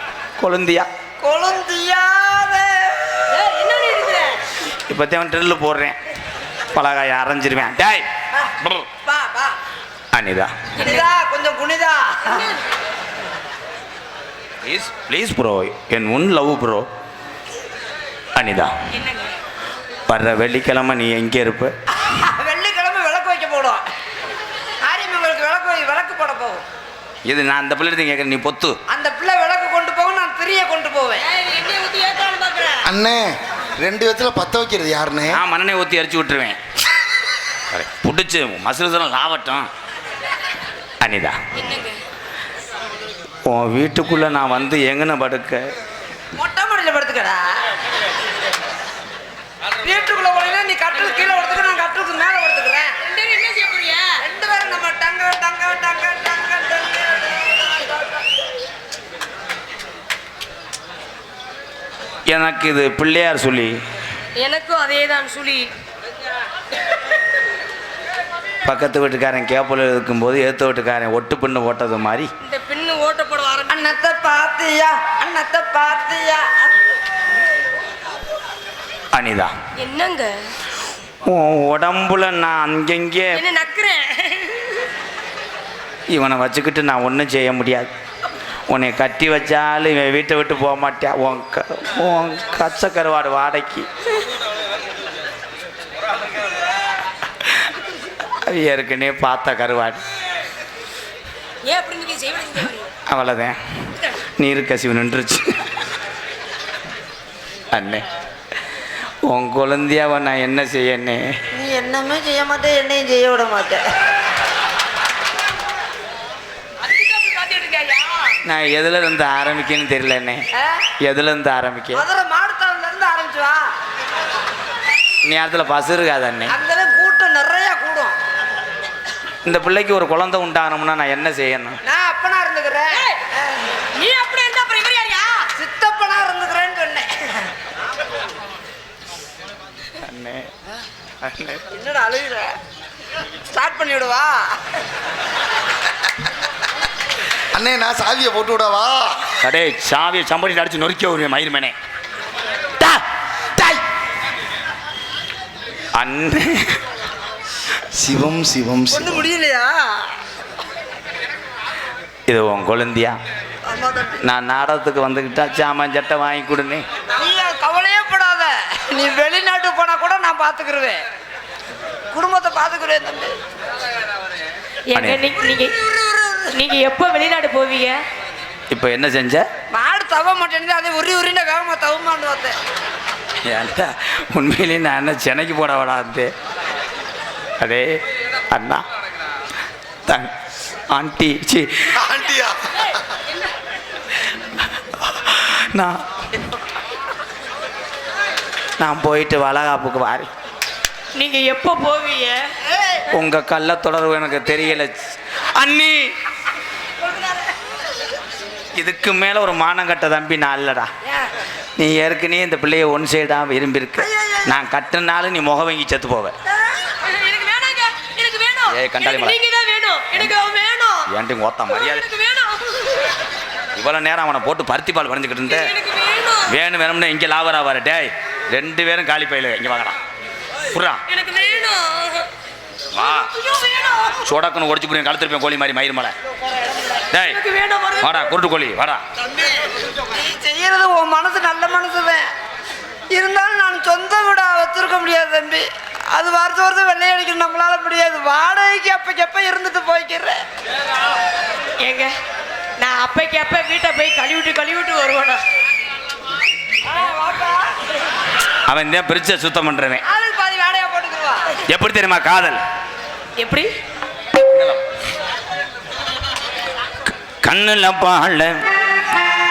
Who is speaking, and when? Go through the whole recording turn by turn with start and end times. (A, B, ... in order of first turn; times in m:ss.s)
0:00.4-0:00.9 A
0:01.2-0:03.2 B
0:03.3-0:04.4 C
0:04.9-0:06.0 A
0:06.7-0:08.1 A
0:08.6-0:08.9 A
0:09.0-0:09.6 B
0:10.1-0:10.7 A
0:10.8-0:11.1 C
0:10.8-0:12.6 B
0:14.6-0:16.9 A
0:18.4-0:18.7 A
0:18.9-0:19.3 C
0:20.1-0:21.7 A
0:22.0-0:23.8 B
0:24.8-0:26.6 B
0:27.2-0:28.8 A
0:28.9-0:31.2 B
0:31.2-0:32.9 C
0:32.8-0:35.4 D
0:35.3-0:36.6 A
0:37.7-0:39.7 A
0:41.0-0:41.4 A
0:41.6-0:42.0 C
0:43.5-0:45.6 A
0:46.4-0:47.5 B
0:49.8-0:53.0 B
0:53.0-0:54.2 C
0:54.2-0:58.4 B
1:02.3-1:03.8 A
1:04.4-1:05.7 C
1:08.6-1:12.3 A
1:12.4-1:13.9 C
1:13.7-1:16.7 B
1:19.1-1:19.5 A
1:19.8-1:20.3 C
1:21.2-1:23.4 A
1:23.3-1:24.9 C
1:26.1-1:27.9 A
1:28.7-1:33.9 A
1:38.3-1:40.0 A
1:41.6-1:42.9 C
1:43.1-1:43.6 A
1:44.4-1:45.6 A
1:47.7-1:48.0 A
1:49.3-1:51.4 A
1:51.5-1:53.9 B
1:56.8-1:58.4 C
1:58.4-2:00.4 A
2:00.6-2:00.9 B
2:01.0-2:02.0 A
2:02.0-2:03.6 B
2:05.2-2:06.6 A
2:06.5-2:08.2 B
2:09.4-2:11.8 A
2:11.8-2:13.1 B
2:12.9-2:13.2 C
2:13.8-2:15.5 C
2:15.6-2:17.5 B
2:20.0-2:20.5 A
2:21.2-2:21.6 A
2:21.7-2:22.6 B
2:23.5-2:24.6 B
2:27.5-2:29.2 D
2:29.4-2:31.8 A
2:36.0-2:36.8 A
2:37.9-2:39.2 D
2:38.9-2:40.1 B
2:42.3-2:43.2 A
2:43.7-2:44.2 B
2:44.2-2:46.8 A
2:47.2-2:51.0 B
2:52.1-2:53.4 B
2:54.9-2:55.8 C
2:54.9-2:55.3 A
2:56.3-2:58.0 C
2:58.7-2:59.4 A
2:59.7-3:02.6 B
3:03.4-3:06.3 A
3:07.6-3:07.9 A
3:08.5-3:08.8 A
3:10.1-3:10.3 A
3:10.9-3:12.0 A
3:11.9-3:13.0 D
3:15.0-3:16.5 A
3:18.8-3:20.3 A
3:21.2-3:22.5 C
3:23.1-3:26.1 A
3:28.8-3:30.9 A
3:31.8-3:36.4 A
3:34.0-3:34.5 B
3:36.7-3:41.1 C
3:38.7-3:39.4 A
3:41.1-3:42.1 A
3:41.7-3:43.1 C
3:43.8-3:45.7 A
3:45.5-3:46.5 C
3:46.5-3:50.0 A
3:50.7-3:51.0 A
3:51.1-3:52.3 C
3:52.9-3:53.3 A
3:53.3-3:54.2 C
3:54.2-3:56.1 A
3:57.1-3:57.4 A
3:57.1-3:58.2 C
3:58.0-3:59.0 A
4:00.1-4:02.2 B
4:03.1-4:10.4 B
4:11.8-4:12.1 C
4:12.8-4:15.4 C
4:16.8-4:17.8 B
4:18.7-4:20.0 A
4:20.0-4:21.6 B
4:21.7-4:22.6 A
4:23.4-4:23.7 C
4:27.1-4:28.6 A